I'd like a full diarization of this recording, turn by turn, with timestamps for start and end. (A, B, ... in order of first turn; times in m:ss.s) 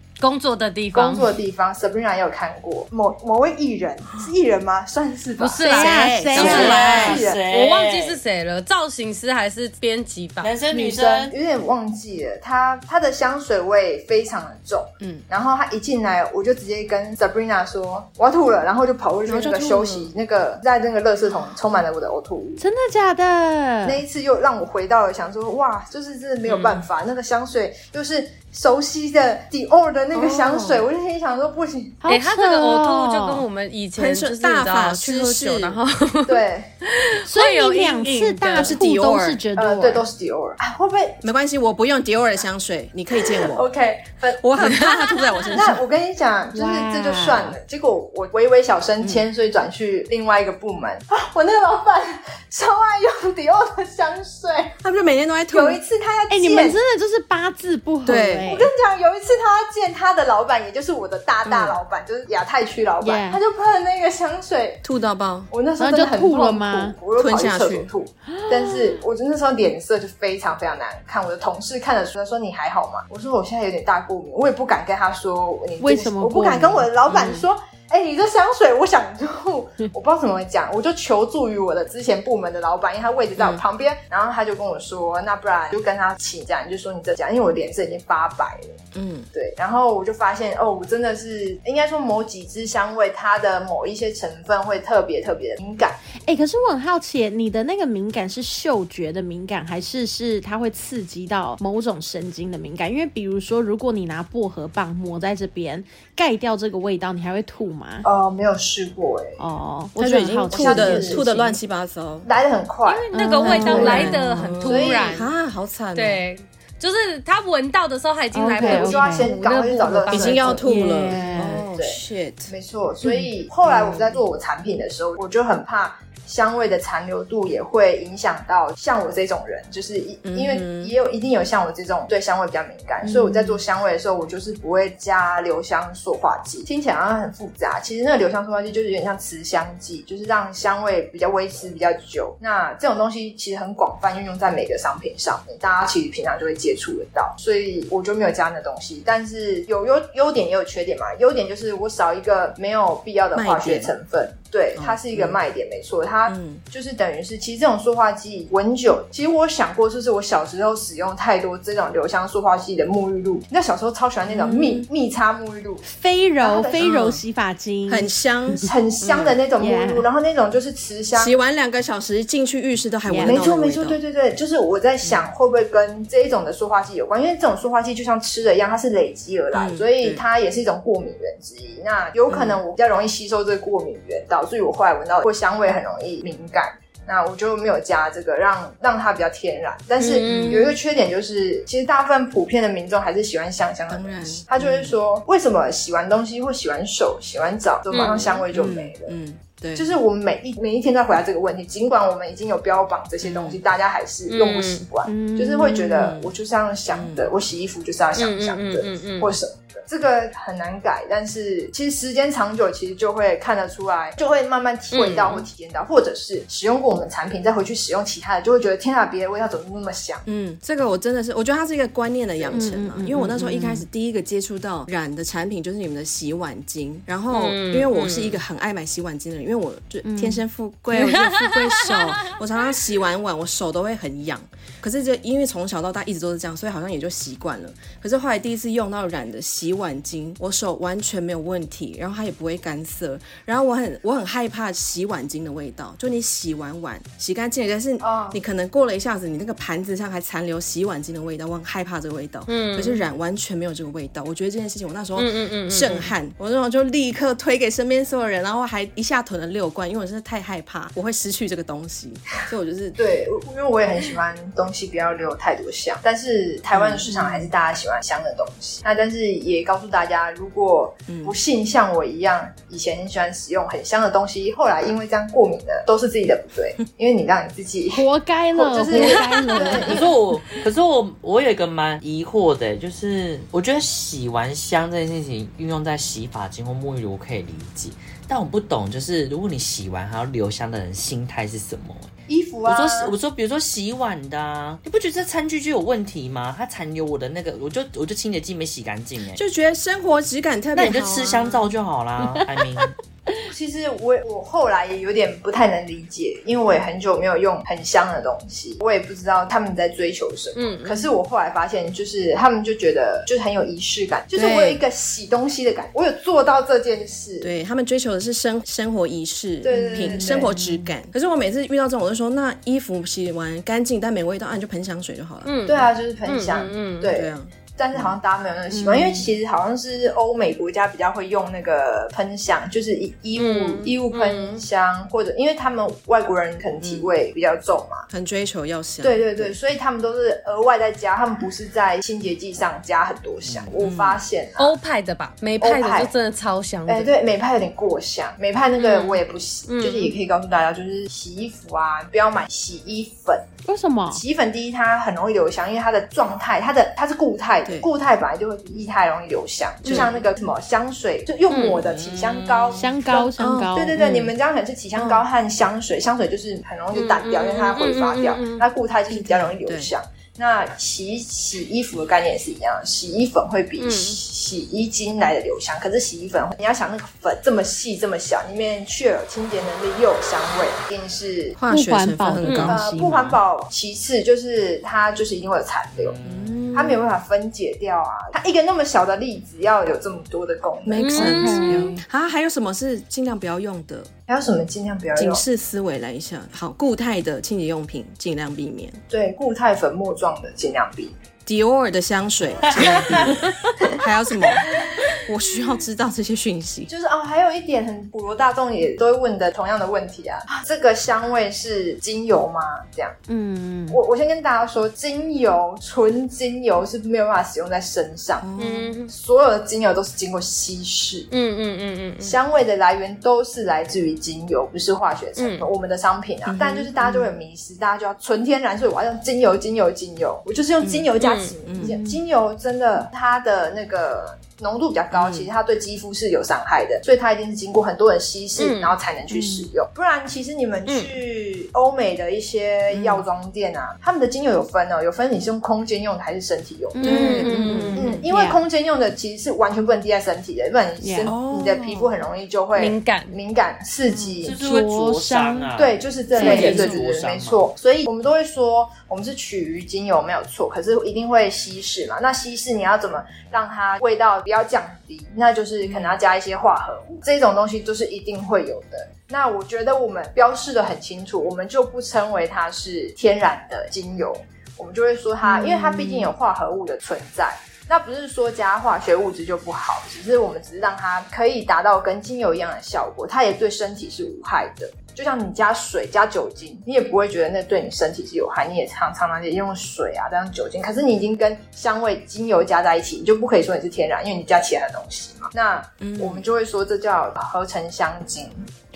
0:00.2-0:01.3 A
0:00.9-0:07.4 B
0:05.4-0:10.5 A
0:05.6-0:07.0 C
0:05.6-0:07.2 D
0:06.4-0:08.2 E
0:10.4-0:11.3 E
0:10.7-0:22.6 B
0:19.3-0:20.1 D
0:22.6-0:24.0 C
0:23.8-0:32.0 B
0:26.5-0:26.8 C
0:30.1-0:30.9 D
0:32.0-0:33.4 C
0:32.1-0:38.8 A
0:34.0-0:35.8 D
0:36.3-0:36.7 B
0:37.3-0:40.0 C
0:38.5-0:39.4 D
0:39.6-0:41.2 B
0:41.2-0:43.7 D
0:43.4-0:44.5 B
0:44.4-0:45.8 D
0:44.6-0:45.5 A
0:45.5-0:54.8 B
0:46.5-0:47.6 C
0:49.0-0:49.3 D
0:54.8-0:55.8 D
0:55.5-0:56.8 B
0:56.3-0:58.7 C
0:58.0-0:58.6 D
0:58.5-1:04.8 B
1:01.4-1:01.8 D
1:03.0-1:03.4 C
1:04.8-1:05.5 D
1:05.5-1:28.8 B
1:05.8-1:07.0 C
1:07.2-1:07.9 D
1:08.3-1:09.0 C
1:15.8-1:16.9 C
1:17.1-1:17.5 D
1:23.4-1:23.6 D
1:29.0-1:29.3 D
1:29.3-1:36.0 B
1:36.2-1:48.1 C
1:48.0-1:49.4 B
1:49.4-1:51.6 C
1:50.0-1:52.3 D
1:50.5-1:51.2 B
1:52.2-1:55.3 B
1:52.8-1:55.3 A
1:53.1-1:54.2 C
1:53.4-1:56.2 D
1:56.0-2:00.6 A
1:58.3-1:59.3 C
1:58.6-2:45.9 B
2:00.1-2:02.5 D
2:00.6-2:01.6 C
2:03.0-2:03.3 C
2:03.6-2:04.2 D
2:10.2-2:10.9 D
2:13.0-2:13.6 C
2:33.3-2:34.0 D
2:34.8-2:35.4 D
2:36.3-2:36.6 D
2:44.3-2:44.9 D
2:45.9-2:48.7 C
2:46.4-2:46.9 B
2:46.8-2:47.2 D
2:47.9-2:49.4 D
2:48.6-2:51.4 B
2:49.6-2:50.0 C
2:51.1-2:54.0 D
2:53.1-2:53.5 C
2:53.2-3:19.1 B
2:55.0-2:55.3 D
2:59.5-3:00.2 D
3:02.3-3:02.6 D
3:10.0-3:10.8 A
3:10.2-3:10.6 D
3:13.9-3:15.0 D
3:17.9-3:18.4 A
3:18.5-3:19.9 D
3:19.8-3:40.2 B
3:23.2-3:23.6 D
3:24.3-3:24.9 A
3:25.1-3:26.1 C
3:25.8-3:26.4 D
3:26.9-3:27.3 D
3:28.2-3:29.3 A
3:34.9-3:35.4 A
3:40.3-4:23.0 D
3:42.5-3:43.9 C
3:47.3-3:48.4 A
3:50.0-3:50.4 C
3:51.0-3:51.9 A
4:08.0-4:08.4 B
4:12.5-4:13.0 A
4:15.2-4:16.1 A
4:23.0-4:38.0 B
4:26.7-4:27.3 D
4:27.1-4:27.4 C
4:31.1-4:31.4 D
4:37.9-4:40.0 C
4:38.6-4:40.1 B
4:38.9-4:39.8 A
4:39.8-4:52.1 E
4:52.3-4:53.2 B
4:52.6-4:59.4 E
4:59.4-5:01.4 D
5:00.8-5:02.9 E
5:02.2-5:03.4 C
5:03.5-5:17.5 B
5:10.6-5:11.1 A
5:14.3-5:14.8 D
5:17.4-5:25.5 D
5:19.6-5:20.6 B
5:19.7-5:20.9 C
5:25.5-5:27.1 A
5:25.7-5:38.1 B
5:27.1-5:28.2 D
5:28.7-5:29.3 C
5:33.4-5:34.6 A
5:36.8-5:37.1 D
5:38.1-5:39.6 D
5:39.0-5:44.7 B
5:43.4-5:43.8 E
5:43.8-5:44.2 D
5:44.6-5:47.1 A
5:45.6-5:46.1 B
5:46.9-5:53.5 B
5:49.7-5:50.1 A
5:53.7-5:54.2 C
5:54.1-6:21.6 B
5:59.8-6:00.1 A
5:59.8-6:00.2 D
6:01.7-6:02.8 E
6:02.7-6:04.0 C
6:03.3-6:04.3 D
6:06.9-6:08.6 A
6:09.1-6:09.9 D
6:13.8-6:14.2 A
6:21.6-6:22.8 D
6:21.7-6:23.4 C
6:22.4-6:22.7 A
6:22.7-6:26.2 B
6:26.0-6:26.7 E
6:26.2-6:27.0 D
6:26.7-6:31.5 B
6:30.8-6:34.1 D
6:31.0-6:31.7 A
6:31.2-6:32.0 C
6:34.3-6:35.4 B
6:35.2-6:39.0 D
6:39.1-6:41.2 B
6:41.5-6:43.4 D
6:42.8-6:43.4 E
6:42.8-6:43.1 B
6:44.0-6:44.7 D
6:45.2-6:46.9 D
6:46.9-6:53.2 B
6:53.3-6:54.0 C
6:53.9-6:58.5 B
6:58.4-6:59.0 D
6:58.6-6:59.1 A
6:59.1-7:01.3 B
7:01.3-7:02.4 A
7:02.2-7:27.3 B
7:05.4-7:05.7 A
7:06.5-7:07.3 D
7:10.8-7:11.1 D
7:11.2-7:11.6 A
7:11.7-7:12.0 D
7:11.8-7:12.2 C
7:15.1-7:15.5 D
7:18.6-7:19.0 A
7:19.3-7:19.7 C
7:20.9-7:21.1 A
7:22.9-7:23.3 D
7:27.0-7:28.1 A
7:27.0-7:28.6 C
7:27.0-7:28.2 D
7:28.0-7:34.6 B
7:31.0-7:31.3 C
7:31.2-7:32.2 D
7:32.8-7:33.4 A
7:34.4-7:37.7 E
7:34.6-7:35.7 C
7:35.8-8:18.7 B
7:36.3-7:37.0 C
7:45.8-7:46.1 C
7:55.4-7:56.3 C
8:16.0-8:16.5 D